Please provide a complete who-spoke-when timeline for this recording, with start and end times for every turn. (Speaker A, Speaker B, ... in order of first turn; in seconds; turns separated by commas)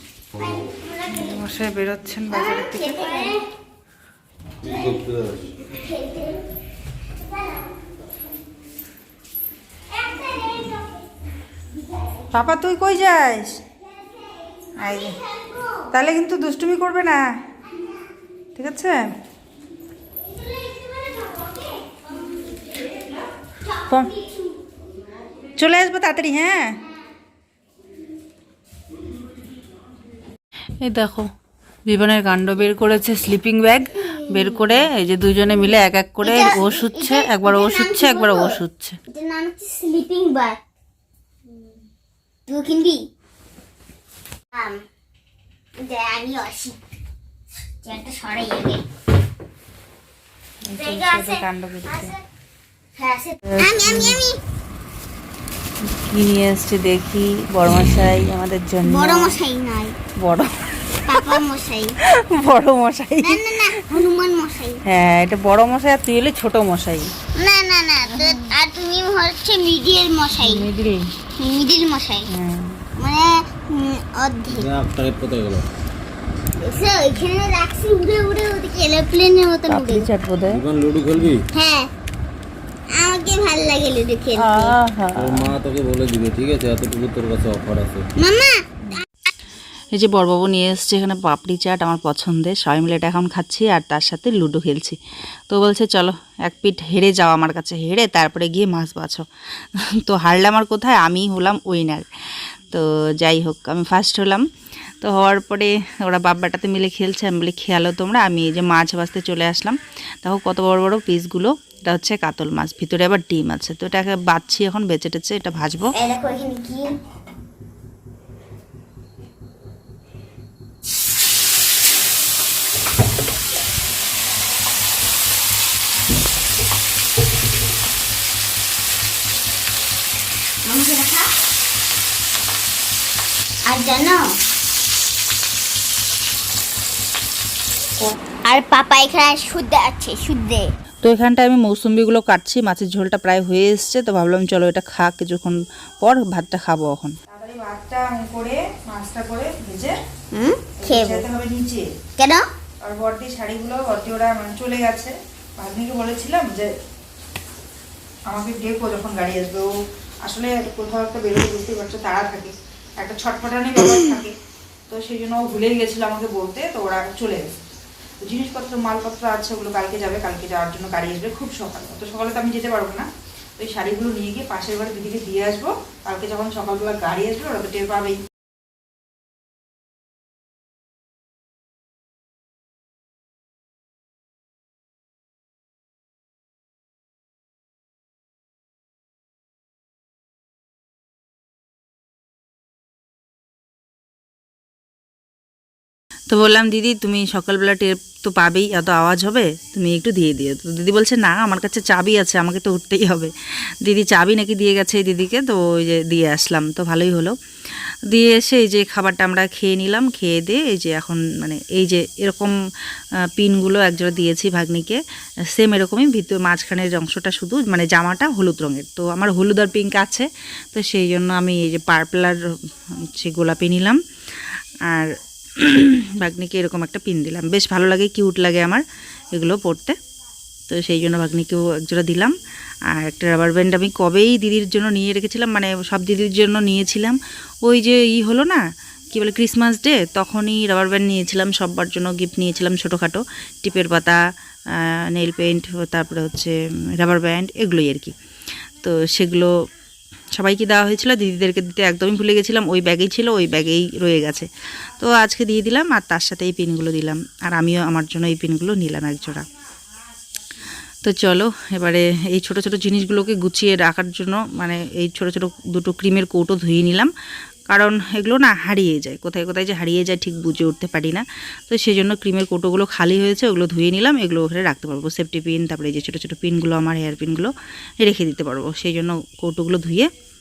Speaker A: 0.4-1.4, Speaker B: 1.1-3.3, Speaker A: 2.3-3.5, Speaker C: 4.6-5.5, Speaker A: 4.7-5.0, Speaker A: 5.7-6.4, Speaker A: 7.2-7.7, Speaker A: 9.9-11.1, Speaker B: 12.3-13.6, Speaker A: 14.0-15.8, Speaker B: 14.8-15.2, Speaker B: 15.9-17.2, Speaker B: 18.6-19.1, Speaker A: 20.2-22.9, Speaker A: 23.6-24.5, Speaker B: 25.6-26.8, Speaker B: 30.8-31.3, Speaker B: 31.9-39.0, Speaker A: 36.2-40.6, Speaker A: 42.5-43.0, Speaker A: 44.5-44.8, Speaker A: 45.8-46.8, Speaker A: 47.8-48.8, Speaker B: 50.6-52.1, Speaker A: 50.7-52.2, Speaker A: 53.0-54.4, Speaker B: 53.5-54.2, Speaker B: 55.8-59.4, Speaker A: 58.8-60.0, Speaker B: 60.2-61.4, Speaker A: 61.1-61.9, Speaker B: 62.1-64.0, Speaker A: 63.2-64.8, Speaker B: 64.8-67.1, Speaker A: 67.3-70.7, Speaker B: 68.0-68.5, Speaker B: 70.3-71.1, Speaker A: 71.4-72.3, Speaker B: 72.3-72.8, Speaker A: 73.0-74.7, Speaker C: 74.5-75.6, Speaker A: 76.6-80.0, Speaker B: 79.7-80.6, Speaker C: 80.5-81.4, Speaker A: 81.5-81.9, Speaker A: 82.9-84.8, Speaker B: 84.3-85.5, Speaker C: 85.2-88.1, Speaker A: 88.2-88.6, Speaker B: 89.9-102.1, Speaker B: 102.7-104.5, Speaker B: 105.0-115.9, Speaker A: 115.9-116.9, Speaker A: 130.6-131.3, Speaker A: 133.7-134.2, Speaker A: 138.4-140.7, Speaker B: 141.0-149.9, Speaker A: 150.3-151.2, Speaker B: 150.8-151.8, Speaker A: 152.2-152.4, Speaker B: 152.8-156.7, Speaker B: 158.3-159.7, Speaker B: 160.2-164.3, Speaker B: 164.9-167.5, Speaker B: 168.2-178.2, Speaker B: 196.3-203.3, Speaker B: 203.8-207.3, Speaker B: 208.1-212.5, Speaker B: 213.3-222.4, Speaker B: 223.0-224.0, Speaker B: 224.9-229.9, Speaker B: 230.7-232.3, Speaker B: 232.9-238.6, Speaker B: 239.1-248.1, Speaker B: 248.8-249.5, Speaker B: 250.3-259.4, Speaker B: 261.0-267.1, Speaker B: 267.7-280.1